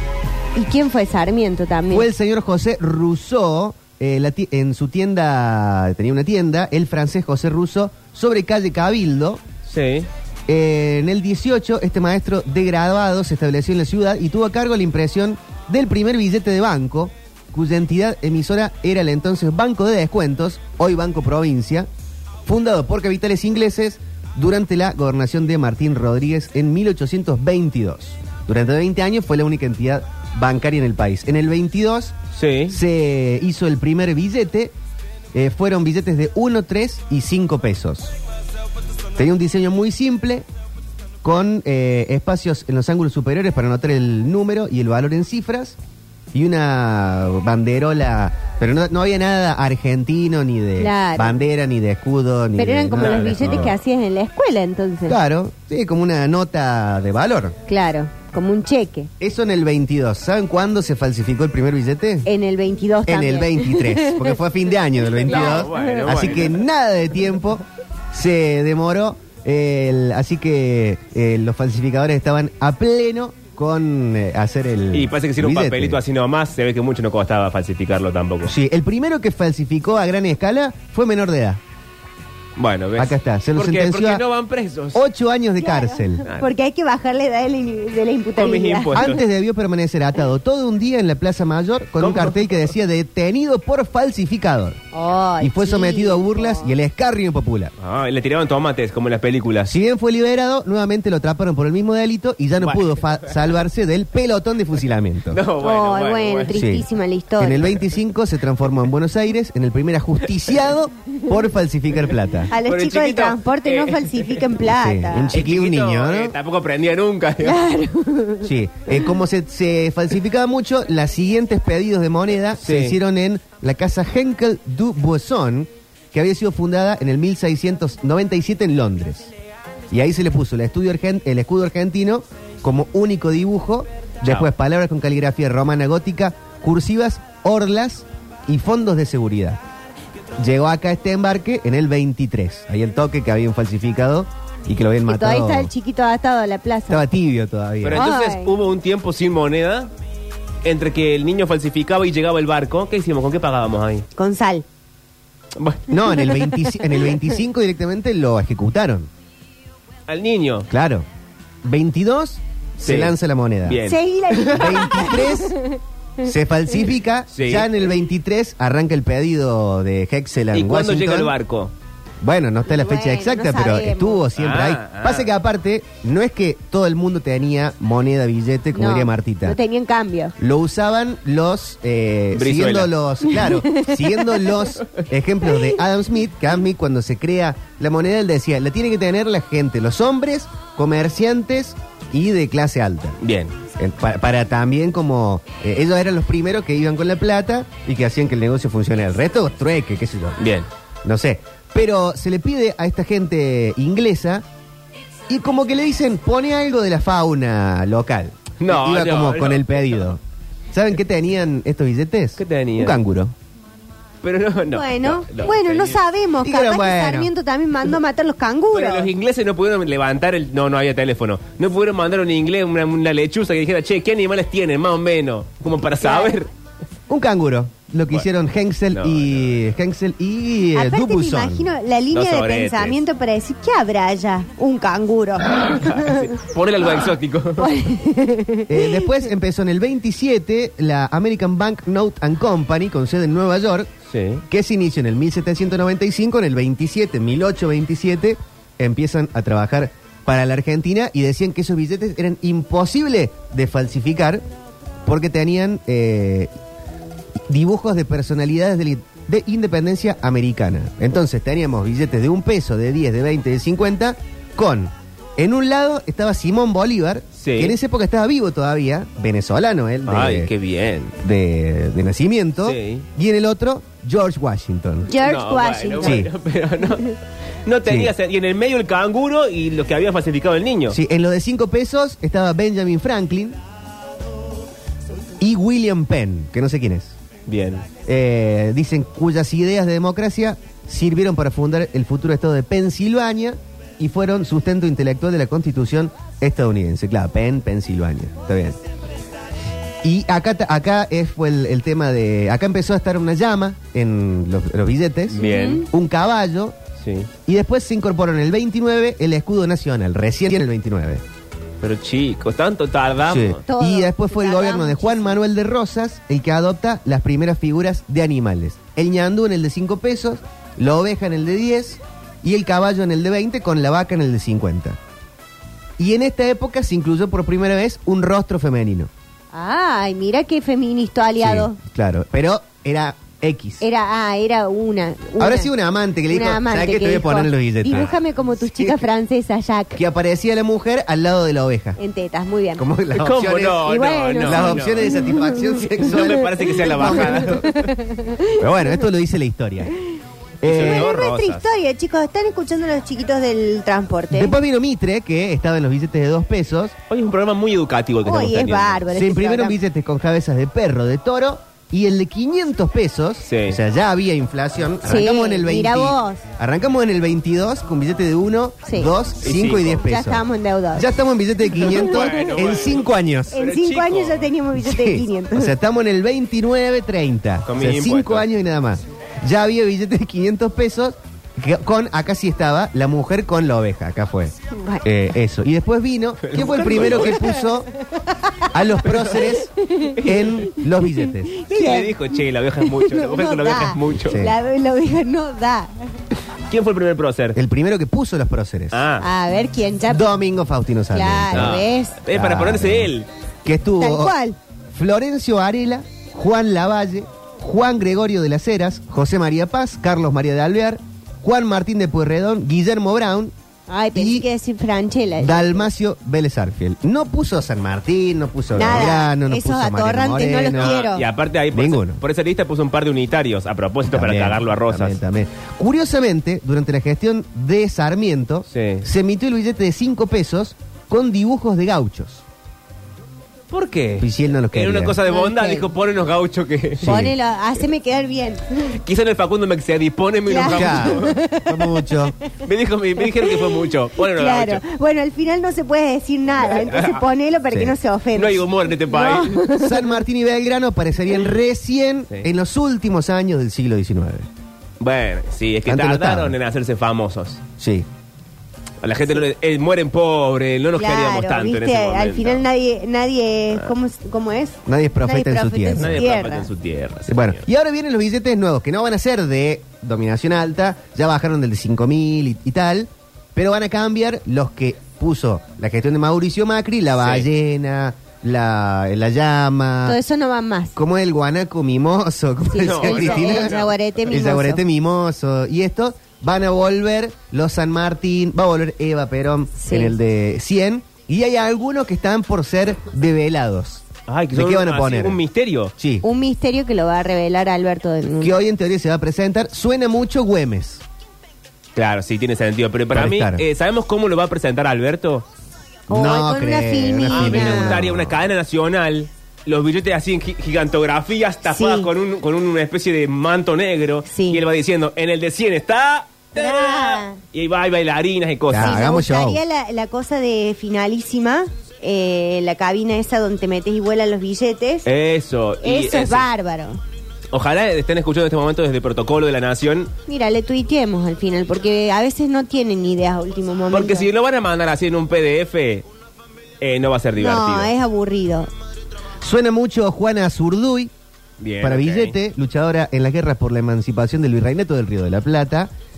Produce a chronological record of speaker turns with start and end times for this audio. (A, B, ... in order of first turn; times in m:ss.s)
0:00.6-0:02.1 A
0:01.9-0:09.4 B
0:09.7-0:10.1 C
0:10.5-0:21.9 B
0:22.4-0:32.2 B
0:32.3-0:32.8 C
0:32.7-0:34.7 B
0:35.3-0:38.1 B
0:39.2-0:40.5 B
0:41.2-0:45.8 B
0:46.3-0:53.8 B
0:50.8-0:51.4 A
0:52.6-0:55.2 A
0:53.0-0:53.8 C
0:55.1-0:57.6 B
0:57.7-0:59.1 A
0:59.2-1:02.3 B
1:02.2-1:04.3 A
1:03.1-1:16.0 B
1:05.2-1:06.4 A
1:05.3-1:06.6 C
1:14.9-1:18.5 C
1:18.5-1:21.6 B
1:22.6-1:25.0 C
1:23.0-1:24.2 B
1:24.9-1:26.3 B
1:25.6-1:29.0 A
1:28.4-1:29.2 C
1:28.9-1:34.8 B
1:32.0-1:32.6 C
1:34.9-1:36.8 A
1:35.4-1:37.7 B
1:37.8-1:39.7 C
1:39.7-1:45.4 B
1:42.6-1:43.5 C
1:45.3-1:46.6 C
1:45.6-1:47.7 A
1:46.5-1:46.9 B
1:47.4-1:52.5 B
1:52.5-1:55.4 A
1:52.6-1:54.4 C
1:54.6-1:56.4 B
1:55.3-1:57.6 C
1:57.4-1:58.5 A
1:58.4-2:09.3 B
2:02.6-2:03.0 C
2:09.9-2:19.6 B
2:20.4-2:25.7 B
2:25.1-2:27.0 A
2:26.9-2:28.1 B
2:27.8-2:29.9 C
2:27.9-2:28.6 A
2:30.6-2:34.0 C
2:34.2-2:34.6 A
2:35.6-2:36.4 C
2:35.9-2:39.1 B
2:36.2-2:36.5 A
2:40.1-2:40.7 C
2:40.7-2:41.1 B
2:41.6-2:43.8 B
2:42.8-2:44.8 C
2:43.9-2:46.3 A
2:44.5-2:45.5 B
2:46.2-2:51.4 B
2:47.3-2:47.7 C
2:50.5-2:51.7 C
2:52.2-2:59.6 B
2:52.7-2:54.3 A
2:54.4-2:55.3 C
2:58.7-3:00.3 A
3:00.4-3:13.2 B
3:02.4-3:02.9 C
3:03.2-3:04.7 A
3:05.4-3:05.8 A
3:13.2-3:13.6 C
3:13.8-3:20.4 B
3:20.4-3:20.7 C
3:21.0-3:24.4 B
3:25.3-3:30.2 B
3:28.6-3:30.2 C
3:30.7-3:33.3 B
3:32.4-3:33.0 C
3:34.2-3:36.0 C
3:34.7-3:39.1 A
3:36.4-3:37.3 B
3:38.7-3:46.5 C
3:46.0-3:46.4 A
3:47.1-3:51.7 B
3:48.9-3:49.6 C
3:50.7-3:56.2 A
3:52.1-3:53.0 C
3:55.6-3:57.7 C
3:57.6-3:59.1 A
3:58.7-4:03.9 B
4:04.1-4:04.4 C
4:04.5-4:14.4 B
4:15.1-4:16.5 B
4:17.5-4:30.5 B
4:27.4-4:27.8 C
4:30.1-4:31.2 C
4:31.2-4:35.1 B
4:32.6-4:33.1 C
4:35.0-4:36.2 A
4:35.2-4:41.0 C
4:36.0-4:36.3 B
4:37.8-4:38.1 B
4:40.9-4:43.6 B
4:45.4-4:47.1 B
4:47.5-4:47.8 C
4:48.0-4:58.8 B
5:00.0-5:06.8 B
5:05.3-5:05.9 C
5:05.4-5:05.9 A
5:07.0-5:07.3 C
5:07.5-5:11.2 B
5:11.8-5:13.6 C
5:13.3-5:25.0 B
5:13.7-5:15.4 A
5:26.0-5:29.1 B
5:29.5-5:31.8 A
5:31.4-5:33.8 B
5:33.8-5:35.7 A
5:35.4-5:38.1 B
5:36.3-5:40.0 A
5:38.7-5:39.1 B
5:40.0-5:42.0 B
5:42.0-5:42.8 A
5:42.8-5:43.9 B
5:43.2-5:45.2 C
5:43.8-5:49.0 A
5:44.4-5:47.7 B
5:45.8-5:47.8 C
5:48.6-5:49.9 B
5:50.6-5:51.2 B
5:50.6-5:51.7 C
5:50.7-5:54.6 A
5:54.3-5:57.0 B
5:57.1-5:59.0 C
5:58.2-5:59.8 A
5:59.1-6:10.4 B
6:03.4-6:03.8 C
6:05.0-6:06.4 A
6:08.8-6:09.1 A
6:09.4-6:10.0 C
6:10.0-6:11.1 A
6:10.9-6:13.6 B
6:11.8-6:12.7 A
6:11.9-6:14.5 C
6:13.5-6:15.7 A
6:14.8-6:27.9 B
6:17.7-6:18.5 C
6:24.7-6:25.1 A
6:26.4-6:27.4 C
6:27.1-6:27.4 A
6:28.2-6:28.7 A
6:28.7-6:29.7 B
6:29.1-6:29.6 C
6:29.3-6:32.2 A
6:30.2-6:30.6 C
6:30.2-6:31.5 B
6:31.7-6:34.4 C
6:32.8-6:36.1 A
6:34.2-6:34.6 B
6:36.7-6:37.6 C
6:37.5-6:39.0 B
6:38.9-6:39.3 C
6:39.2-6:40.4 A
6:40.1-6:43.1 B
6:41.1-6:42.2 A
6:41.5-6:43.3 C
6:43.6-6:44.4 B
6:44.0-6:44.6 A
6:44.9-6:53.5 B
6:53.9-6:55.9 A
6:54.2-6:54.5 B
6:55.4-7:01.0 B
6:58.7-7:01.2 A
7:00.7-7:05.2 C
7:01.7-7:02.2 B
7:04.1-7:12.4 B
7:08.7-7:09.1 C
7:13.7-7:17.2 C
7:14.2-7:15.2 B
7:15.3-7:15.9 A
7:17.0-7:17.4 B
7:17.0-7:18.9 A
7:19.0-7:21.4 C
7:20.5-7:22.1 A
7:20.7-7:22.4 B
7:22.6-7:24.8 C
7:23.3-7:30.2 A
7:26.6-7:27.2 C
7:27.7-7:28.0 B
7:28.4-7:29.6 C
7:29.7-7:34.5 B
7:35.0-7:37.6 C
7:35.8-7:36.6 B
7:37.8-7:38.1 B
7:39.0-7:42.6 C
7:41.0-7:46.7 A
7:44.9-7:46.2 B
7:46.0-7:47.6 C
7:47.3-8:00.2 B
7:57.2-7:57.5 C
8:00.0-8:01.0 A
8:01.0-8:03.7 B
8:02.7-8:04.8 A
8:02.8-8:03.9 C
8:04.3-8:15.4 B
8:09.8-8:10.2 A
8:14.3-8:15.9 C
8:16.0-8:16.3 B
8:16.2-8:18.6 A
8:18.4-8:21.0 B
8:22.0-8:25.4 C
8:23.1-8:23.6 B
8:26.1-8:28.0 A
8:26.1-8:28.5 B
8:27.3-8:39.1 C
8:31.7-8:32.1 A
8:34.3-8:34.6 A
8:36.5-8:37.4 A
8:38.7-8:39.6 B
8:38.8-8:45.1 A
8:45.0-8:46.5 C
8:45.8-8:47.0 A
8:47.5-8:50.1 C
8:50.3-8:54.3 A
8:53.9-8:56.1 C
8:56.8-8:57.9 C
8:57.4-8:58.7 A
8:59.4-9:01.1 B
9:01.6-9:02.4 C
9:01.8-9:05.9 B